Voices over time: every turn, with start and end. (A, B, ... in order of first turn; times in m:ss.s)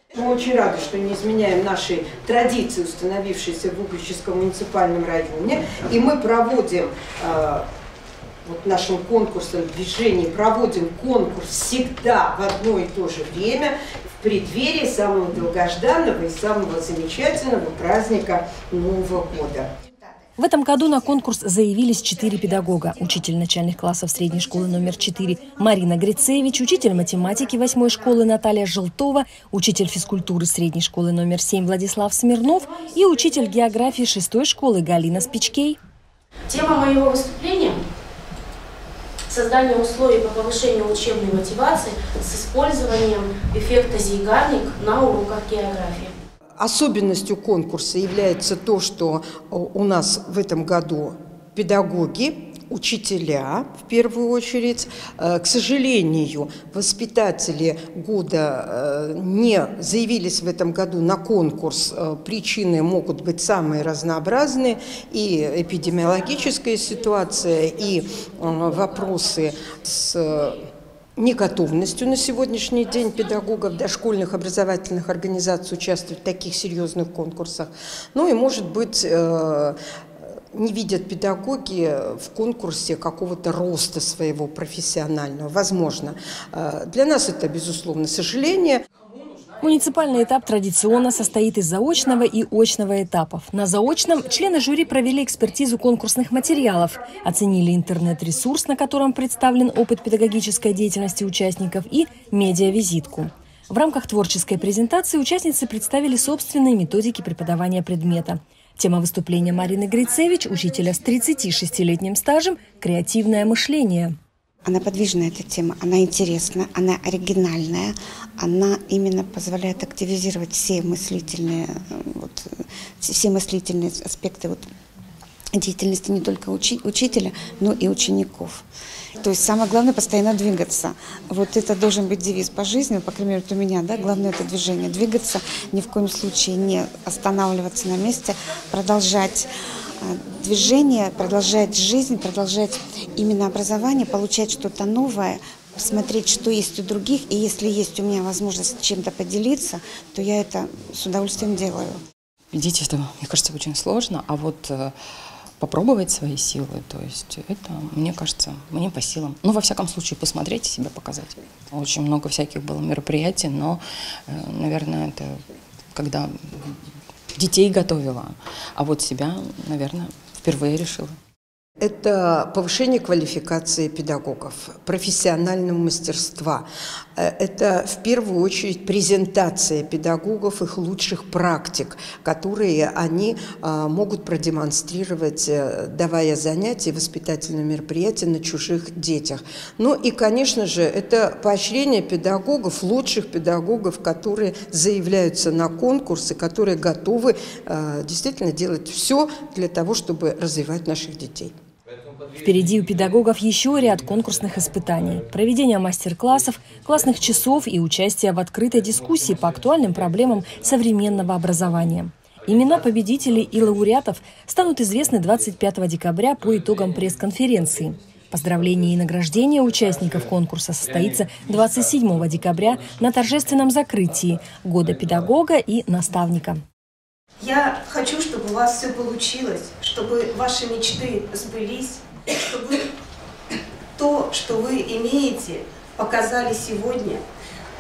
0:00.1-0:07.7 A
0:08.4-0:19.7 A
0:20.4-0:35.8 B
0:36.5-0:37.8 C
0:39.3-0:46.1 C
0:46.6-1:19.8 A
1:20.5-1:28.8 A
1:29.6-1:54.1 B
1:54.7-2:04.6 D
2:05.5-2:08.6 D
2:09.2-2:19.5 D
2:20.0-2:32.0 D
2:32.5-2:34.9 E
2:35.6-2:45.4 E
2:46.0-2:46.8 E
2:47.4-2:51.2 E
2:51.8-3:21.5 A
3:22.4-3:46.6 B
3:47.4-3:52.9 F
3:54.0-3:57.2 F